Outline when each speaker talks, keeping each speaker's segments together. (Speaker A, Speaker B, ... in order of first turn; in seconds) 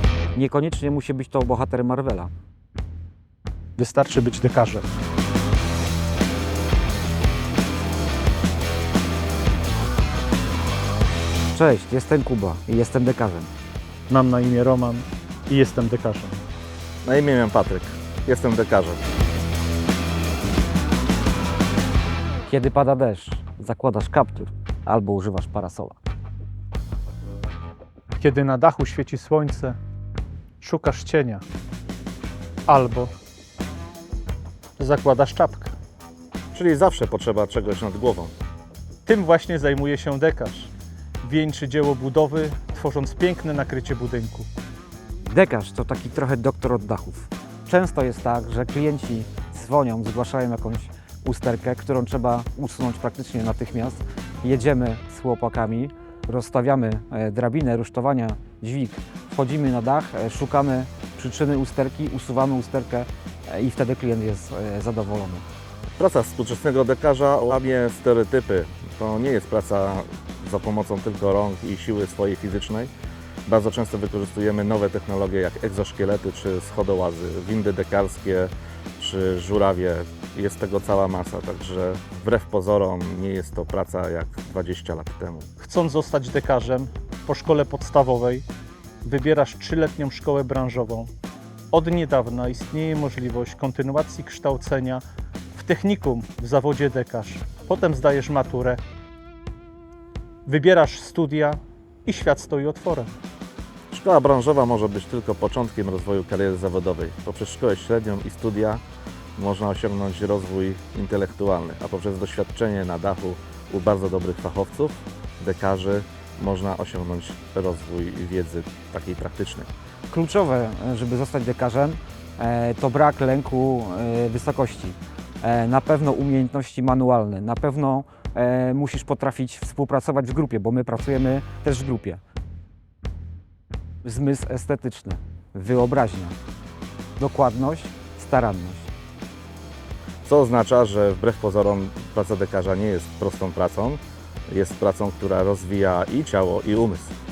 Speaker A: 0.3-2.3, 11.5-13.5, 22.5-26.0, 45.2-65.5, 120.1-132.2, 134.0-136.4, 137.2-138.9
Speaker B: 3.8-4.9, 14.1-16.4, 28.2-29.8, 30.6-31.4, 32.7-33.1, 34.8-35.8, 39.1-44.5, 85.6-88.5, 89.0-91.1, 91.7-95.0, 95.5-98.8, 100.5-103.2
Speaker C: 17.0-19.0, 36.5-38.4, 66.0-72.9, 73.5-85.5, 103.9-108.8, 109.4-119.7, 140.2-147.2